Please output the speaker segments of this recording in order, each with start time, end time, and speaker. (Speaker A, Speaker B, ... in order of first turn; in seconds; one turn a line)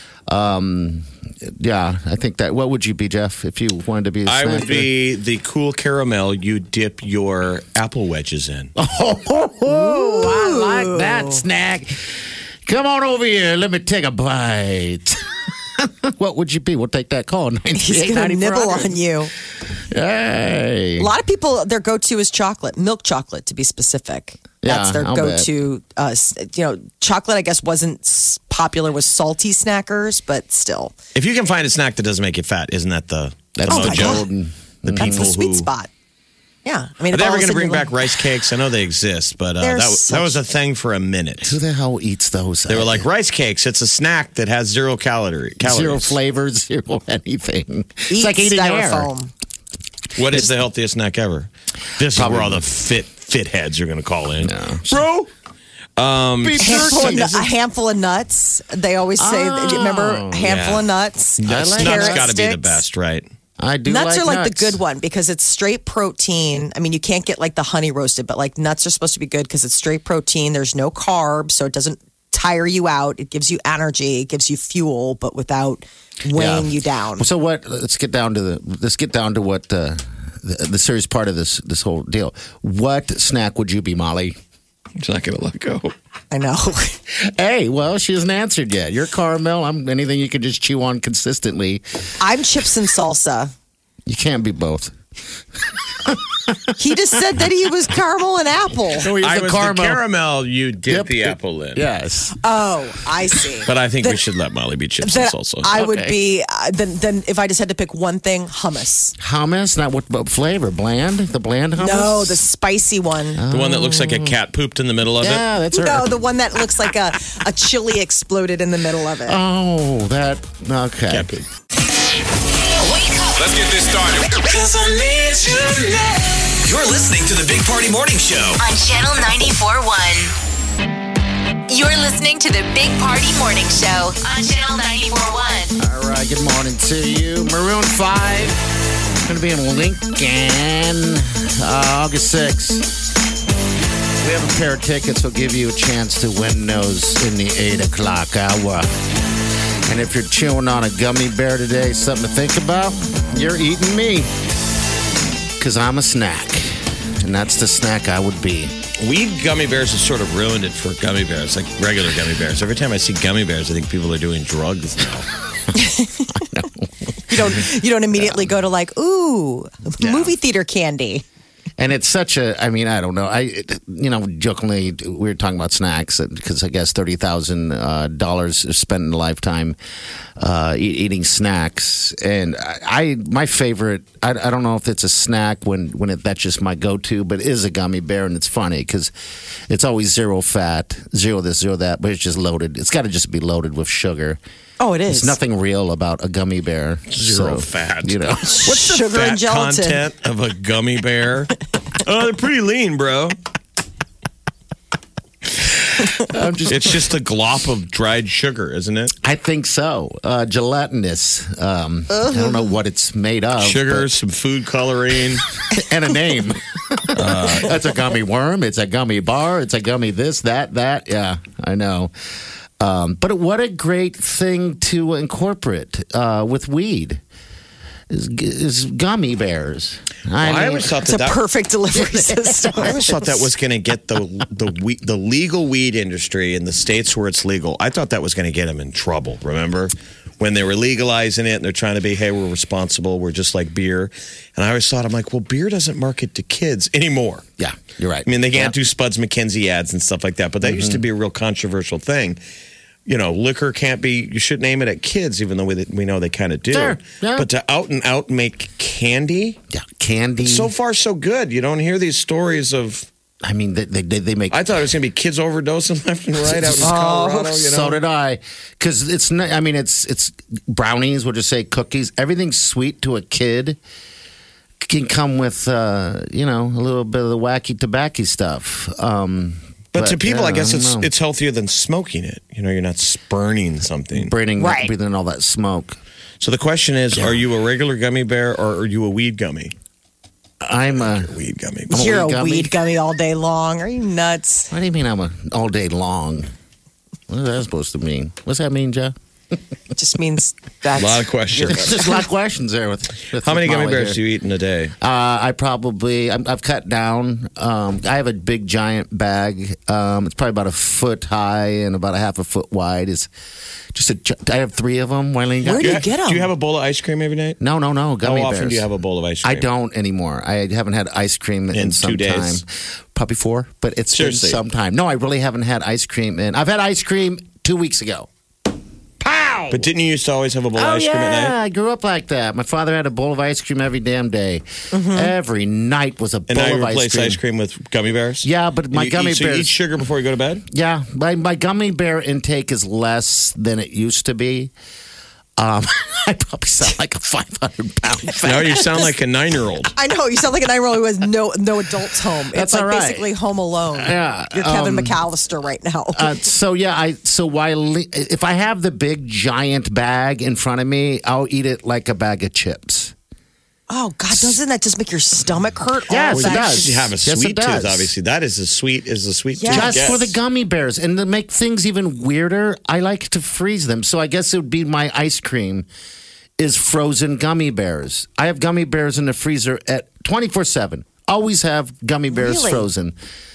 Speaker A: 0.3-4.9
Speaker B: 4.2-8.7
Speaker A: 8.8-12.0
Speaker C: 9.7-11.4
Speaker A: 12.7-15.2
Speaker A: 15.8-19.0
Speaker C: 17.7-19.3
Speaker A: 19.9-21.1
Speaker C: 21.0-30.9
Speaker A: 24.6-25.5
Speaker B: 31.1-34.2
Speaker A: 33.5-35.4
Speaker C: 33.6-34.2
Speaker B: 34.8-35.7
Speaker C: 35.0-35.9
Speaker C: 36.6-38.1
Speaker B: 37.1-41.6
Speaker C: 39.6-40.5
Speaker A: 41.4-43.1
Speaker B: 42.7-46.2
Speaker A: 45.6-49.1
Speaker C: 48.1-49.3
Speaker B: 50.1-55.3
Speaker A: 52.1-52.6
Speaker A: 54.4-55.0
Speaker B: 56.0-57.4
Speaker A: 56.4-57.4
Speaker C: 56.6-62.8
Speaker A: 59.2-60.5
Speaker B: 60.4-60.9
Speaker A: 61.4-62.2
Speaker B: 61.4-63.2
Speaker A: 63.6-64.8
Speaker C: 63.9-77.3
Speaker A: 76.3-84.4
Speaker B: 85.0-85.9
Speaker C: 86.3-87.0
Speaker A: 87.2-91.8
Speaker C: 92.2-93.5
Speaker A: 94.0-94.9
Speaker A: 95.7-96.7
Speaker C: 96.8-99.1
Speaker A: 99.0-100.0
Speaker B: 99.0-101.8
Speaker A: 100.8-102.3
Speaker C: 102.3-104.2
Speaker B: 103.7-105.7
Speaker C: 105.0-109.1
Speaker A: 105.7-106.2
Speaker A: 109.2-112.4
Speaker C: 111.7-113.4
Speaker A: 113.3-114.4
Speaker B: 113.5-115.4
Speaker A: 115.2-116.1
Speaker C: 115.7-119.4
Speaker A: 119.2-121.3
Speaker B: 121.1-121.4
Speaker D: 122.8-125.0
Speaker E: 123.3-126.0
Speaker E: 126.5-128.6
Speaker D: 128.6-130.3
Speaker D: 131.7-135.7
Speaker A: 135.8-138.6
Speaker A: 139.2-142.9
Speaker A: 144.2-148.9
Speaker A: 149.8-154.3
Speaker A: 155.6-158.7
Speaker B: 159.0-165.3
Speaker C: 165.7-166.4
Speaker A: 166.3-168.5
Speaker C: 167.3-171.2
Speaker A: 170.0-170.3
Speaker A: 171.8-179.8
Speaker A: 180.4-189.1
Speaker A: 189.7-194.4
Speaker C: 194.8-195.4
Speaker A: 195.1-198.9
Speaker B: 197.1-203.3
Speaker C: 198.5-200.0
Speaker A: 206.2-207.0
Speaker B: 206.7-209.1
Speaker A: 209.2-214.1
Speaker C: 212.1-212.6
Speaker B: 213.6-215.4
Speaker A: 215.7-222.1
Speaker B: 217.1-217.8
Speaker A: 222.8-227.2
Speaker A: 228.1-231.0
Speaker B: 230.4-231.4
Speaker C: 231.1-233.4
Speaker A: 231.9-233.0
Speaker B: 232.8-247.4
Speaker A: 247.6-248.7
Speaker B: 248.2-252.4
Speaker A: 250.6-251.0
Speaker B: 253.1-259.6
Speaker A: 256.7-257.5
Speaker A: 259.7-260.7
Speaker B: 260.4-263.1
Speaker A: 263.4-264.8
Speaker B: 264.5-268.0
Speaker A: 266.4-267.0
Speaker C: 266.8-267.6
Speaker A: 267.6-273.8
Speaker A: 274.8-281.1
Speaker B: 279.9-284.3
Speaker A: 284.1-286.0
Speaker C: 284.6-284.9
Speaker B: 286.4-289.7
Speaker A: 287.1-287.4
Speaker A: 290.6-291.3
Speaker B: 291.0-292.0
Speaker A: 291.9-292.8
Speaker C: 291.9-294.7
Speaker A: 294.7-296.5
Speaker A: 297.3-299.1
Speaker C: 299.9-302.0
Speaker B: 301.0-302.1
Speaker A: 301.6-304.2
Speaker B: 303.4-304.9
Speaker A: 305.0-313.3
Speaker A: 313.9-316.0
Speaker C: 315.6-316.5
Speaker B: 315.8-317.6
Speaker A: 317.6-318.9
Speaker B: 318.2-319.7
Speaker A: 319.4-328.3
Speaker B: 321.7-322.6
Speaker B: 324.1-324.6
Speaker A: 329.2-329.9
Speaker B: 329.7-331.5
Speaker A: 330.7-337.4
Speaker C: 334.9-335.3
Speaker B: 336.5-340.6
Speaker A: 338.4-339.8
Speaker A: 340.7-344.7
Speaker A: 345.6-349.1
Speaker B: 348.4-349.9
Speaker C: 349.9-356.4
Speaker A: 352.5-353.3
Speaker A: 353.9-355.2
Speaker A: 356.1-363.1
Speaker C: 363.9-367.1
Speaker A: 366.1-368.1
Speaker B: 366.3-370.4
Speaker C: 369.5-370.1
Speaker A: 369.7-375.9
Speaker A: 376.6-383.1
Speaker C: 382.3-382.9